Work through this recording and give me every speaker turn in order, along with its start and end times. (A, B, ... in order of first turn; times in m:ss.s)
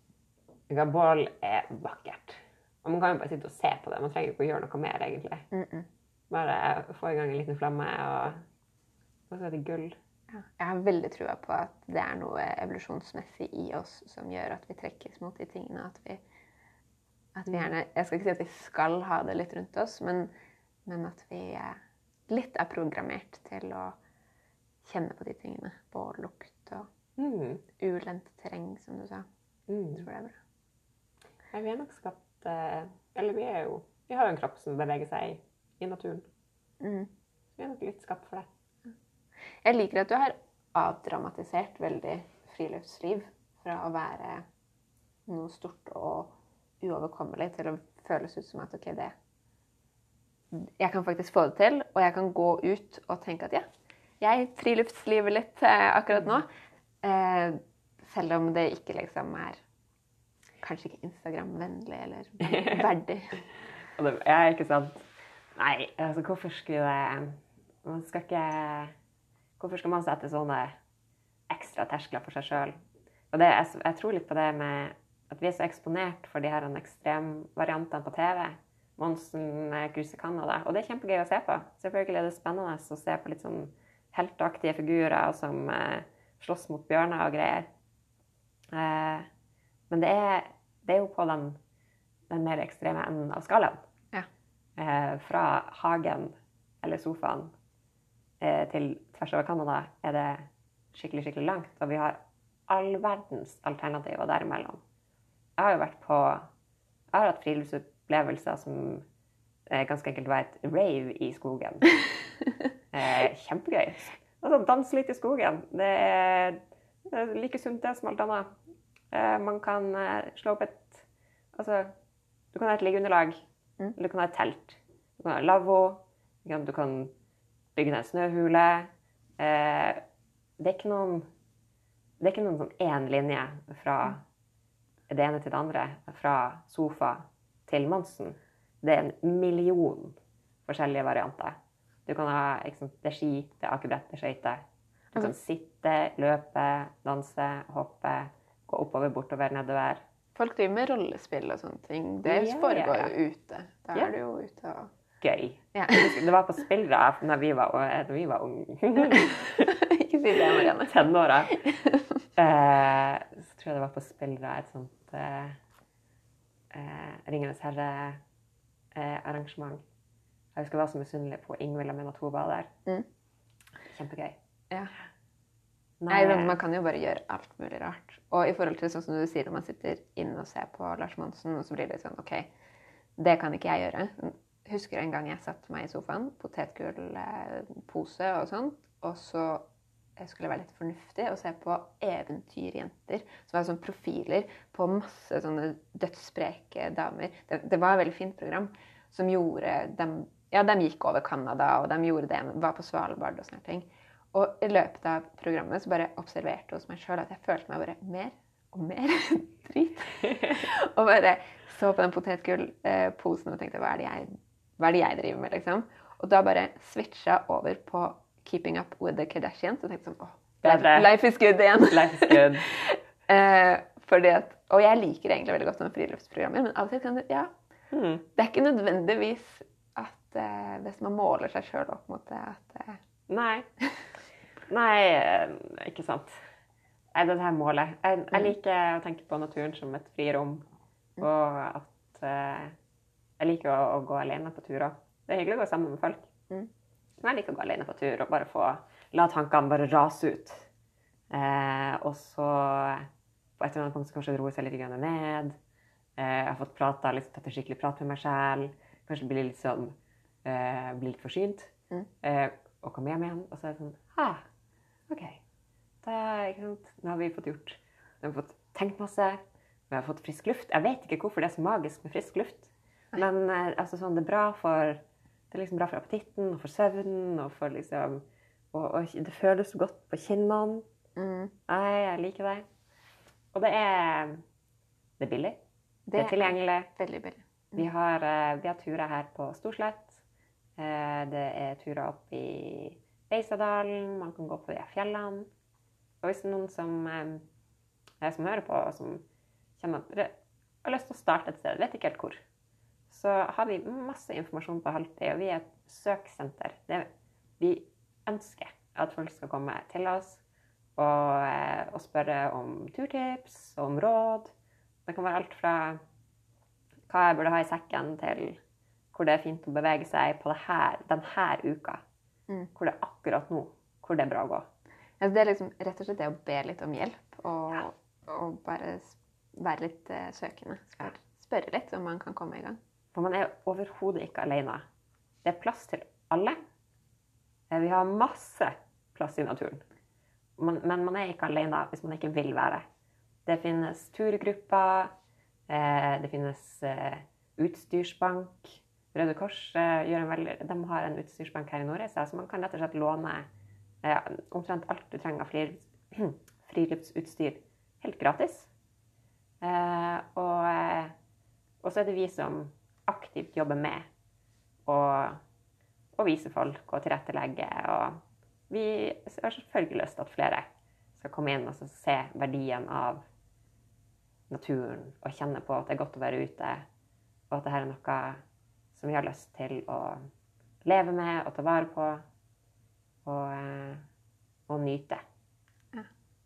0:00.7-0:05.4 A
0:05.5-0:05.9 B
0:06.3-0:08.4 A
0:09.3-0:10.0 A
0:10.3-0:16.2 B
0:17.3-0:20.3 B
0:20.8-0:24.0 B
0:24.8-0:26.9 B
0:27.2-0:27.6 A
0:27.8-0:29.2 B
0:29.7-0:30.0 A
0:29.9-0:30.4 B
0:31.5-0:36.3 A
0:36.8-0:37.1 B
0:37.6-0:38.5 A
0:39.6-0:44.4 B
0:45.3-0:49.1 B
0:50.5-0:53.6 B
0:54.2-0:56.5 B
0:57.0-0:59.6 B
1:00.6-1:03.4 B
1:02.4-1:02.8 A
1:04.0-1:08.9 A
1:09.6-1:10.8 A
1:11.5-1:12.7 A
1:13.3-1:27.7 A
1:28.7-1:29.3 A
1:29.9-1:31.6 A
1:32.3-1:33.8 A
1:34.8-1:37.5 A
1:38.4-1:44.8 A
1:45.6-1:46.5 A
1:47.1-1:49.0 A
1:49.7-1:51.9 A
1:52.9-1:58.5 A
1:59.1-2:01.9 A
2:02.5-2:03.4 A
2:04.0-2:07.1 A
2:07.8-2:10.0 A
2:10.6-2:11.2 A
2:12.2-2:14.2 A
2:15.1-2:24.6 A
2:25.1-2:30.0 A
2:30.4-2:34.9 B
2:32.2-2:33.1 A
2:35.2-2:39.8 A
2:35.7-2:36.2 B
2:39.6-2:41.0 B
2:40.3-2:41.6 A
2:41.5-2:42.0 B
2:42.4-2:45.6 A
2:46.7-2:48.2 A
2:48.9-2:49.8 A
2:50.5-2:52.7 A
2:53.9-2:54.4 A
2:56.0-2:56.6 A
2:56.1-3:02.5 B
3:03.2-3:09.6 B
3:10.2-3:47.5 B
3:40.6-3:41.2 A
3:41.8-3:42.7 A
3:47.9-3:48.2 A
3:48.4-3:53.0 B
3:53.3-3:53.7 A
3:54.7-3:56.4 A
3:57.1-4:00.6 A
4:01.2-4:02.7 A
4:03.4-4:06.3 A
4:07.2-4:10.7 A
4:11.3-4:15.6 A
4:16.2-4:24.4 A
4:25.1-4:25.4 A
4:26.0-4:40.8 A
4:41.2-4:41.5 B
4:41.7-4:42.6 A
4:43.5-4:44.4 A
4:45.2-4:45.6 A
4:46.1-4:47.8 B
4:46.1-4:46.9 A
4:47.7-4:50.2 A
4:50.8-4:55.5 A
4:56.2-4:57.4 A
4:58.2-4:59.2 A
4:59.8-5:02.4 A
5:03.1-5:10.4 A
5:11.0-5:14.5 A
5:15.0-5:16.0 A
5:17.1-5:18.6 A
5:19.1-5:22.0 A
5:22.7-5:24.7 A
5:25.2-5:32.8 B
5:33.1-5:34.8 A
5:35.4-5:36.6 A
5:37.7-5:39.8 A
5:40.6-5:42.8 A
5:43.4-5:45.1 A
5:45.7-5:53.4 A
5:54.0-5:58.7 A
5:59.6-6:01.1 A
6:01.8-6:04.0 A
6:04.8-6:05.4 A
6:06.2-6:13.2 A
6:14.5-6:16.8 A
6:17.5-6:18.4 A
6:18.9-6:20.2 A
6:20.8-6:22.2 A
6:23.2-6:24.0 A
6:24.7-6:25.2 A